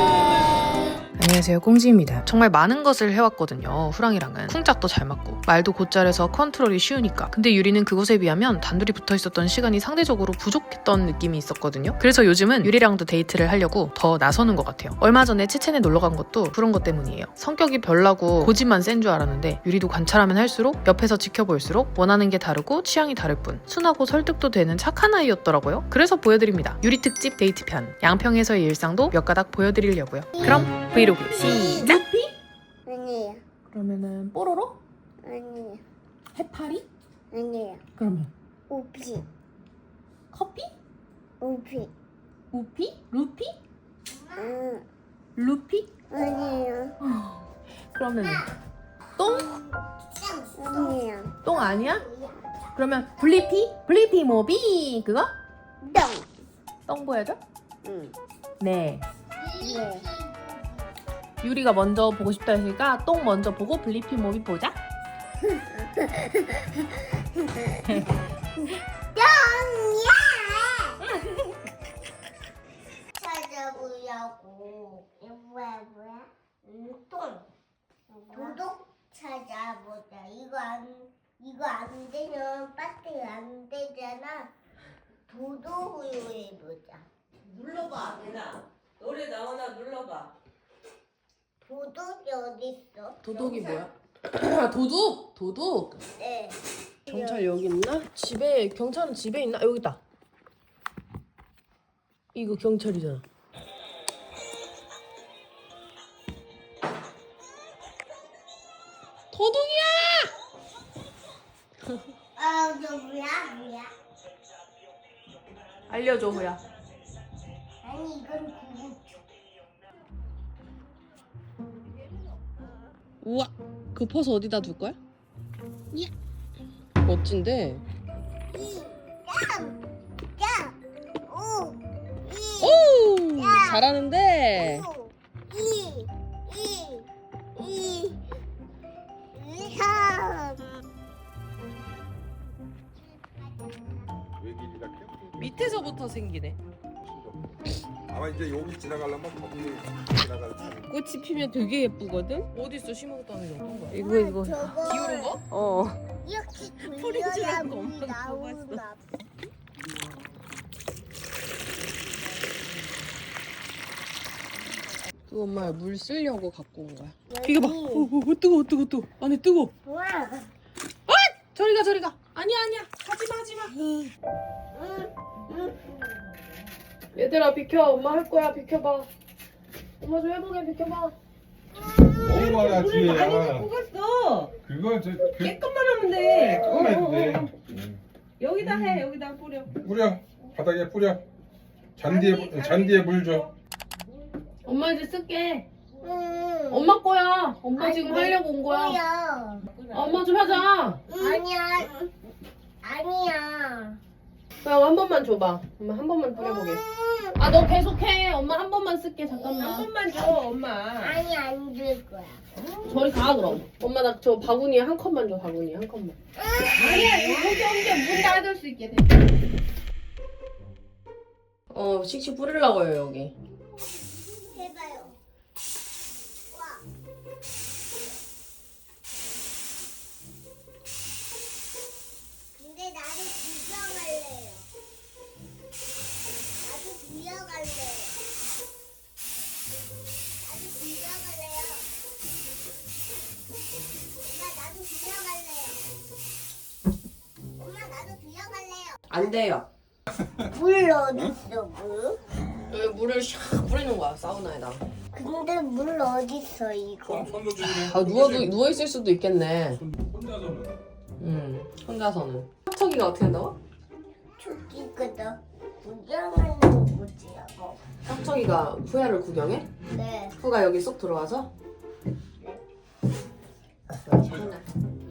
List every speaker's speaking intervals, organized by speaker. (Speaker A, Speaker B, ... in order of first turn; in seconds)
Speaker A: 1.2-32.0, 33.9-34.1
Speaker B: 30.4-31.9, 32.9-33.4, 35.2-35.8, 37.3-37.8, 38.7-39.2, 41.4-41.9, 44.1-44.8, 46.1-47.0, 49.4-52.5, 55.8-56.3, 57.9-58.1, 59.4-60.9, 69.1-71.0, 73.2-77.5, 78.1-84.5, 85.3-87.1, 91.6-93.8, 96.2-97.5, 112.4-113.9, 117.8-119.0, 128.5-129.8, 130.4-133.9, 134.6-138.2, 139.3-140.6, 153.9-155.4, 156.2-159.0, 167.3-168.1, 169.8-170.5, 174.7-175.8, 196.0-197.0, 197.8-199.6, 201.1-202.1, 202.8-204.0, 206.5-207.4, 209.3-210.4, 211.0-212.4, 216.4-217.6, 224.4-225.2, 226.5-226.8, 232.5-234.7, 236.6-238.2, 240.4-241.9, 244.2-245.8, 247.6-249.0, 250.5-252.2, 255.1-257.3, 264.4-267.6, 269.9-270.4
Speaker C: 31.8-32.3, 33.7-34.8, 36.4-36.8, 38.0-38.3, 40.3-40.7, 42.5-43.5, 45.4-45.9, 47.0-47.4, 47.9-48.5, 49.2-49.5, 51.4-52.0, 52.8-55.3, 56.9-57.4, 58.6-59.0, 61.4-64.8, 93.2-96.0, 97.1-100.0, 102.3-103.2, 109.3-110.3, 115.9-116.6, 123.2-125.0, 127.0-127.8, 132.6-134.9, 145.4-146.6, 150.9-156.0, 156.9-158.8, 165.3-169.7, 171.1-173.8, 177.2-179.1, 180.0-181.1, 194.7-195.7, 196.7-199.0, 199.9-201.4, 204.6-206.8, 207.4-211.2, 212.8-216.2, 217.7-218.9, 221.7-223.3, 249.1-249.7, 252.7-254.8, 257.6-259.8, 261.2-263.6, 268.1-269.7, 270.4-271.5, 274.0-274.6
Speaker D: 144.4-145.9, 147.0-147.4, 148.1-151.0, 182.1-183.7, 184.7-185.6, 186.3-188.0, 188.6-189.0, 189.7-191.2, 192.0-193.5, 257.0-258.6, 259.7-260.8
Speaker E: 182.2-184.5, 185.3-187.5, 188.4-189.8, 192.1-193.4, 216.8-219.0